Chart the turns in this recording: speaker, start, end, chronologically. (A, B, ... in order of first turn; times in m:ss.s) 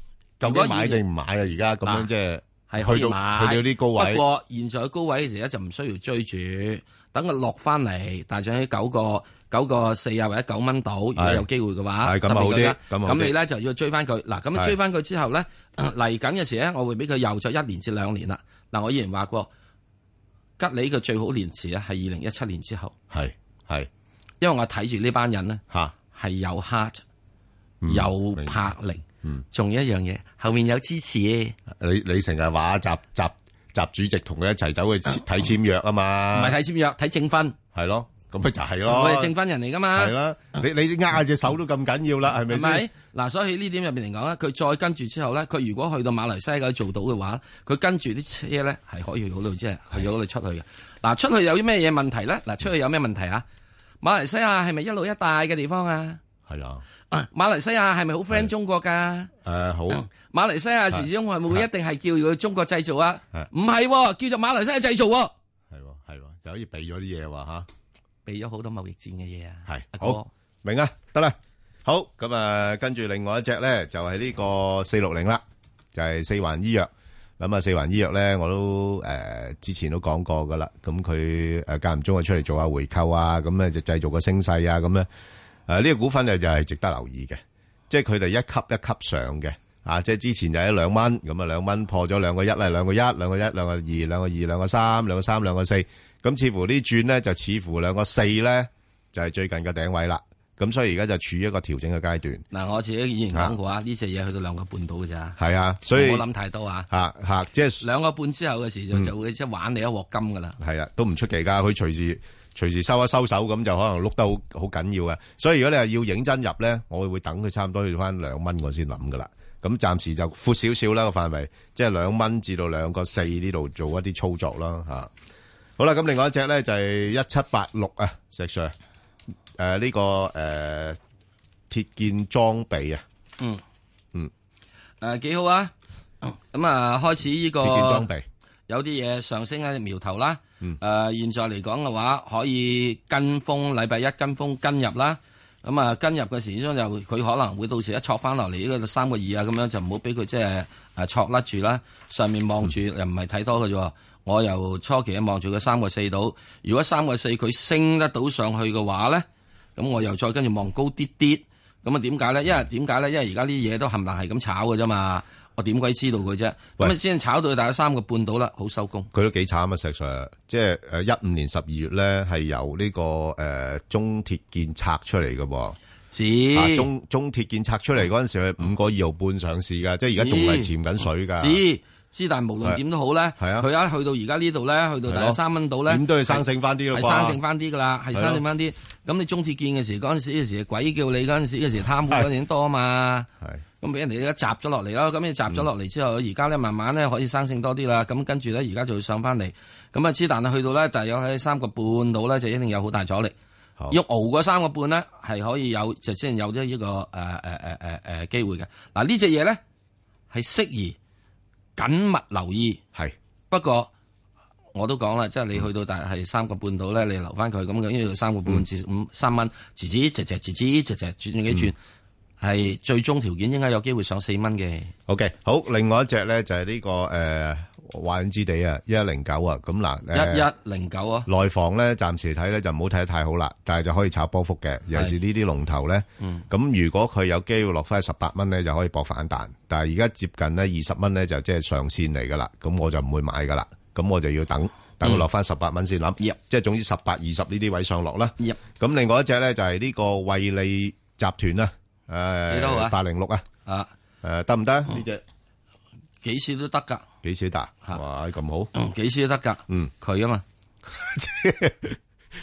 0:00.4-0:04.2 A
0:00.4-0:01.0 B
0:01.8-0:02.1 B
0:02.7-0:19.5 B
0:11.2-0:11.4 A
0:12.0-0:13.3 A
0:20.6-0:22.9 B
0:23.1-0:23.9 A
0:24.4-0:27.0 B
0:27.8-0:28.6 A
0:27.9-0:31.6 B
0:31.7-0:36.6 A
0:36.3-0:37.6 B
0:37.7-0:39.3 A
0:38.9-0:40.1 B
0:39.9-0:42.8 A
0:42.5-0:53.4 B
0:54.0-0:56.2 B
0:56.5-0:56.8 A
0:57.1-0:59.3 B
0:59.4-1:00.0 A
0:59.9-1:05.3 B
1:00.9-1:01.6 A
1:05.7-1:07.7 A
1:08.2-1:10.3 B
1:09.6-1:15.4 A
1:15.9-1:25.1 A
1:25.7-1:42.4 A
1:42.5-1:45.4 B
1:45.4-1:46.2 A
1:45.9-1:46.9 B
1:46.9-1:47.8 A
1:47.8-1:50.6 B
1:50.6-2:05.1 A
2:05.8-2:08.7 A
2:09.6-2:11.0 A
2:11.7-2:13.0 A
2:15.0-2:18.1 B
2:17.6-2:18.2 A
2:18.7-2:49.1 B
2:49.1-2:55.8 A
2:56.1-2:56.9 B
2:56.5-3:01.6 A
3:00.2-3:00.7 B
3:01.4-3:13.3 B
3:03.4-3:03.7 A
3:05.1-3:07.4 A
3:08.1-3:08.4 A
3:13.8-3:23.3 B
3:23.9-3:29.6 B
3:30.3-3:31.0 B
3:31.8-3:32.8 B
3:33.5-3:33.9 B
3:34.7-3:41.8 B
3:42.4-3:44.9 B
3:45.1-3:50.5 A
3:50.1-3:51.3 B
3:51.2-4:13.4 A
4:12.5-4:13.0 B
4:14.2-4:15.2 A
4:16.2-4:17.0 B
4:17.2-4:18.7 A
4:18.7-4:20.4 B
4:20.9-4:22.0 A